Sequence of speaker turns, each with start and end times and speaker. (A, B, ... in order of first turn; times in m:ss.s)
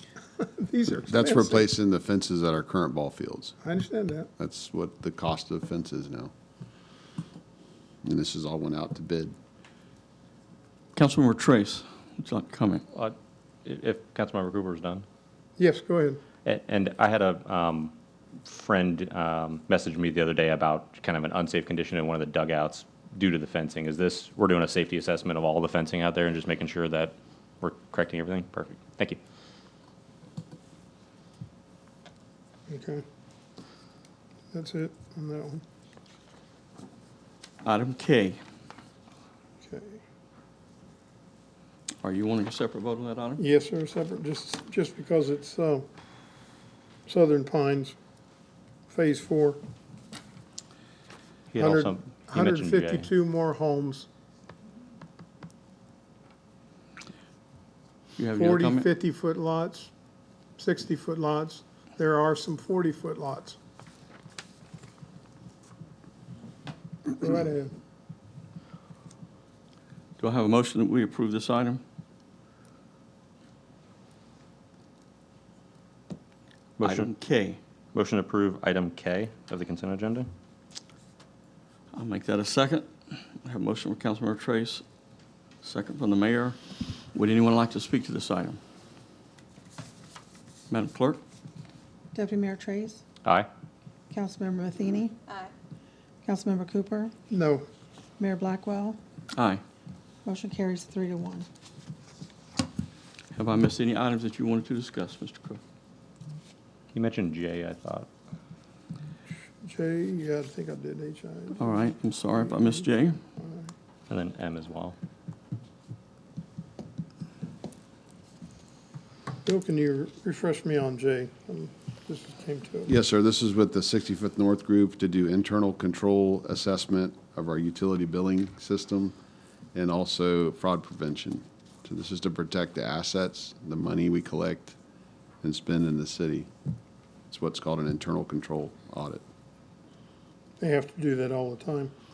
0:00.4-0:01.7 A
0:01.1-0:03.6 B
0:03.6-0:04.3 A
0:04.4-0:06.3 B
0:08.0-0:09.3 B
0:10.9-0:12.8 C
0:12.9-0:15.0 D
0:15.6-0:16.2 A
0:16.4-0:17.9 D
0:18.5-0:29.2 D
0:32.7-0:33.0 A
0:34.5-0:35.6 A
0:37.6-0:38.4 C
0:39.6-0:40.0 A
0:42.0-0:43.4 C
0:43.4-0:45.8 A
0:47.1-0:48.0 A
0:48.9-0:49.6 A
0:51.5-0:53.1 D
0:51.6-0:54.1 A
0:58.2-0:58.9 C
0:58.4-0:59.9 A
1:00.6-1:03.6 A
1:07.1-1:07.7 A
1:10.2-1:11.8 C
1:16.8-1:17.1 D
1:16.8-1:17.6 C
1:17.9-1:20.3 D
1:21.9-1:24.8 C
1:25.6-1:26.6 C
1:27.1-1:28.6 C
1:30.7-1:31.2 C
1:32.1-1:33.0 E
1:34.1-1:35.2 E
1:36.2-1:37.1 E
1:37.3-1:37.6 A
1:38.2-1:39.0 E
1:39.3-1:39.6 C
1:40.2-1:41.4 E
1:43.3-1:45.6 C
1:46.9-1:48.1 D
1:49.6-1:52.8 A
1:51.6-1:53.2 C
1:53.4-1:53.7 A
1:54.1-1:55.0 D
1:59.4-2:02.9 A
2:02.9-2:09.1 B
2:09.7-2:14.7 B
2:15.4-2:16.5 B
2:17.3-2:19.2 B
2:20.6-2:21.9 A